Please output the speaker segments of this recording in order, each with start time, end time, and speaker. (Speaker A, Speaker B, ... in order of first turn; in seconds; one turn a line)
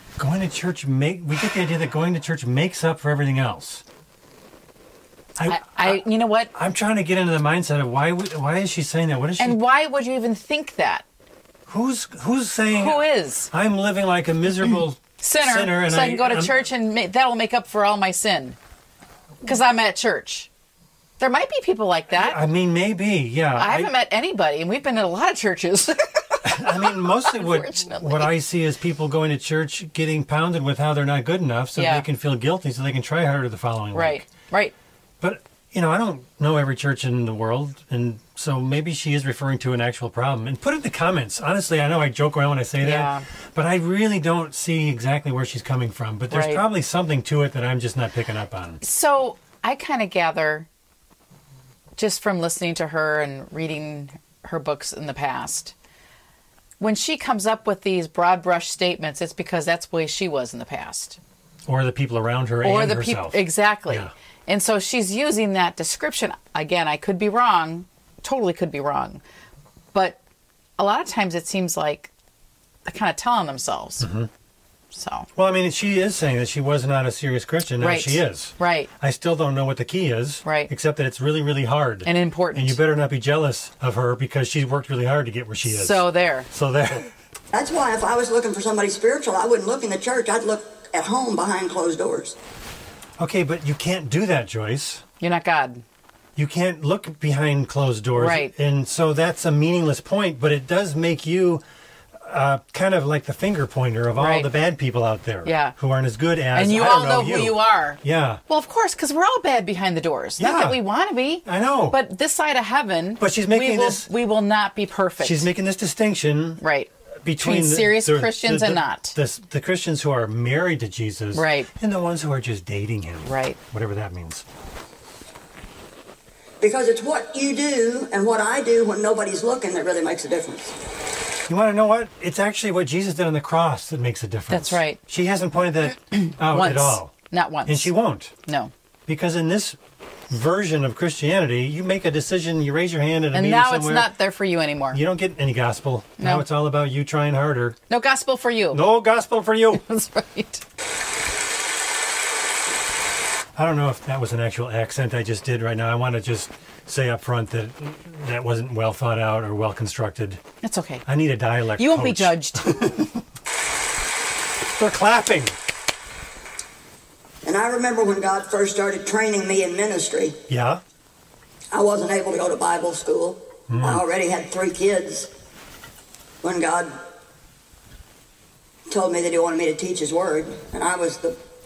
Speaker A: 0.2-3.8
Speaker A: 5.4-9.6
Speaker B: 5.5-6.5
Speaker B: 9.4-11.0
Speaker A: 11.7-16.6
Speaker B: 12.7-13.5
Speaker B: 15.2-18.6
Speaker B: 19.4-20.5
Speaker B: 21.2-22.4
Speaker A: 22.1-23.9
Speaker B: 23.6-28.3
Speaker A: 26.4-34.3
Speaker B: 31.8-32.1
Speaker B: 33.9-34.7
Speaker A: 35.2-48.8
Speaker B: 42.8-43.2
Speaker B: 46.3-46.6
Speaker B: 48.8-50.7
Speaker B: 52.0-55.7
Speaker B: 56.8-61.2
Speaker A: 61.7-64.1
Speaker B: 62.6-69.2
Speaker B: 69.9-70.2
Speaker B: 70.8-72.1
Speaker B: 72.9-74.1
Speaker A: 74.0-74.3
Speaker B: 74.9-75.3
Speaker A: 75.4-87.1
Speaker B: 77.8-78.9
Speaker B: 80.5-80.7
Speaker B: 82.0-82.8
Speaker B: 85.7-86.5
Speaker C: 87.5-92.4
Speaker A: 93.2-95.0
Speaker B: 95.2-95.8
Speaker A: 96.4-101.6
Speaker B: 98.2-98.5
Speaker A: 102.2-108.4
Speaker B: 104.2-104.5
Speaker B: 105.5-105.8
Speaker B: 106.5-115.5
Speaker A: 110.4-110.8
Speaker A: 111.5-112.0
Speaker A: 113.2-114.1
Speaker A: 115.2-116.6
Speaker B: 116.6-119.2
Speaker A: 117.2-124.4
Speaker B: 121.3-121.7
Speaker B: 123.2-123.6
Speaker C: 126.6-130.8
Speaker A: 131.5-137.1
Speaker B: 134.5-135.0
Speaker B: 136.5-137.9
Speaker A: 137.7-138.3
Speaker B: 138.5-138.7
Speaker A: 139.1-139.8
Speaker A: 140.3-144.1
Speaker B: 143.3-145.0
Speaker A: 144.9-147.8
Speaker B: 146.2-146.4
Speaker B: 147.9-148.8
Speaker A: 148.7-149.8
Speaker B: 149.7-150.6
Speaker A: 153.6-160.4
Speaker B: 160.6-161.1
Speaker A: 161.1-163.1
Speaker B: 161.8-163.0
Speaker A: 164.8-165.6
Speaker C: 167.4-170.4
Speaker A: 170.5-170.8
Speaker C: 171.7-175.3
Speaker A: 173.7-174.0
Speaker C: 176.4-177.0
Speaker C: 178.9-181.4